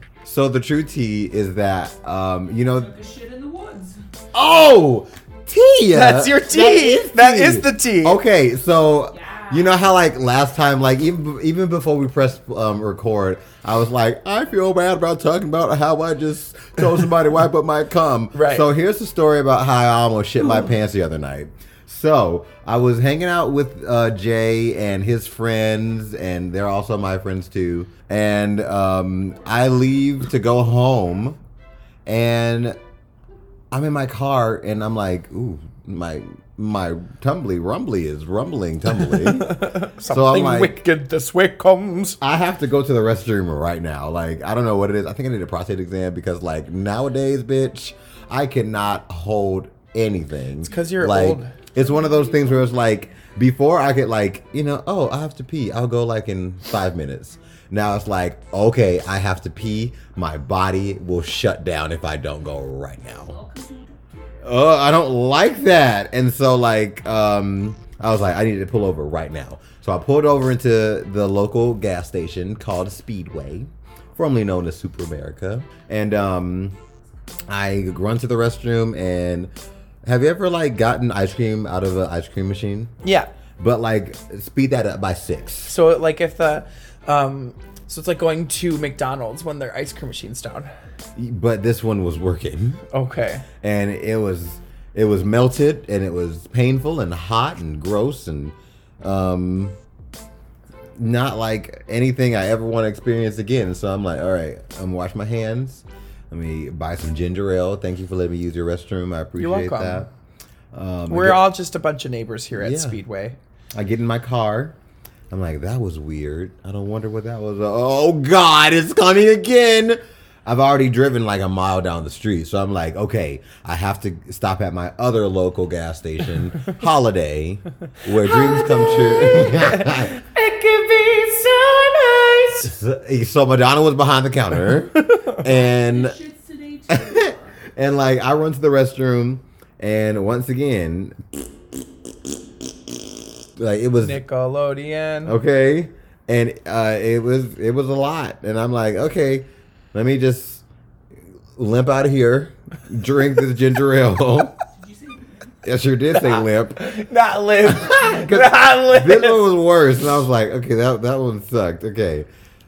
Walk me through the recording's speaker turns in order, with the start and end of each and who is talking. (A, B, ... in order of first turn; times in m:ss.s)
0:00.2-0:02.9 A
0:02.7-0:04.0 B
0:04.3-0:31.4 A
0:05.9-0:08.2 C
0:09.1-0:09.8 B
0:18.3-0:18.7 C
0:32.0-0:32.8 A
0:33.7-0:40.8 A
0:39.0-0:42.2 C
0:42.2-1:03.4 A
0:50.6-0:51.5 C
0:51.8-0:52.9 B
1:03.3-1:04.2 B
1:04.4-1:16.7 A
1:17.5-1:19.5 A
1:20.0-1:22.9 A
1:23.0-1:23.3 C
1:23.6-1:25.7 A
1:25.6-1:30.7 C
1:31.2-1:32.8 A
1:32.9-1:33.4 C
1:33.6-1:39.7 A
1:41.0-1:50.1 A
1:49.4-1:50.1 C
1:50.7-1:51.4 A
1:51.1-1:53.4 C
1:52.5-1:53.0 A
1:53.7-1:54.8 A
1:55.3-2:10.1 A
2:08.8-2:12.7 C
2:12.6-2:16.2 A
2:15.0-2:15.4 C
2:15.6-2:17.6 B
2:16.9-2:21.2 A
2:23.6-2:24.2 A
2:24.0-2:25.4 C
2:25.2-2:30.6 A
2:31.5-2:34.6 A
2:34.8-2:35.5 B
2:35.6-2:36.8 A
2:36.1-2:39.5 C
2:37.6-2:42.3 A